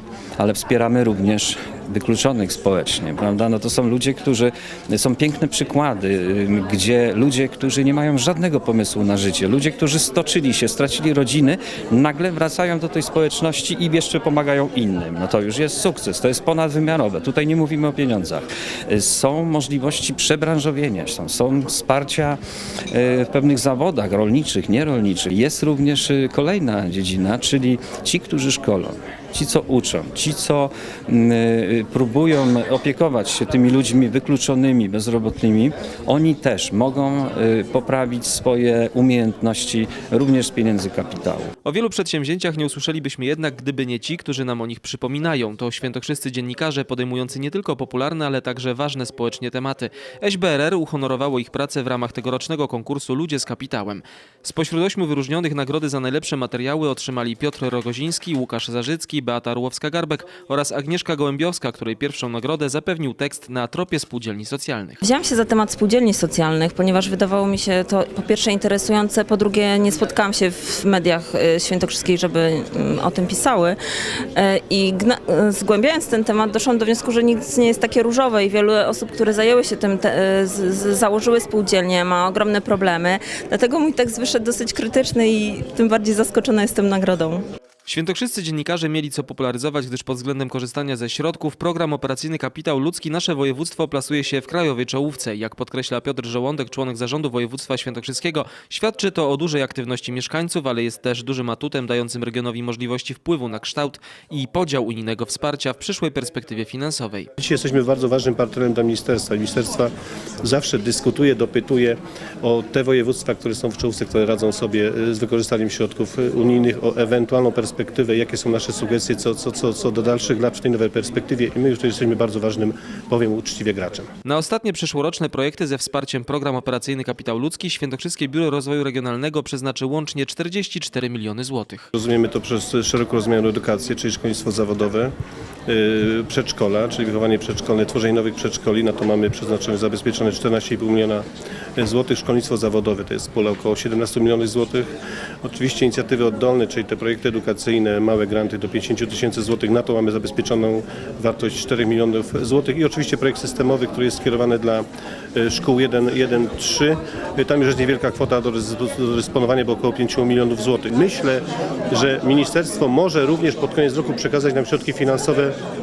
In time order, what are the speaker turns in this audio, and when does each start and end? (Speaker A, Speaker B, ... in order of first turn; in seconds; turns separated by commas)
Speaker A: 0.4-41.5, Speaker B: 41.6-65.0, Speaker C: 65.0-73.8, Speaker C: 74.4-87.4, Speaker B: 87.9-107.3, Speaker D: 107.4-124.1, Speaker B: 124.2-131.9, Speaker D: 131.9-135.1, Speaker D: 135.7-141.2, Speaker D: 141.8-144.9, Speaker D: 145.4-165.5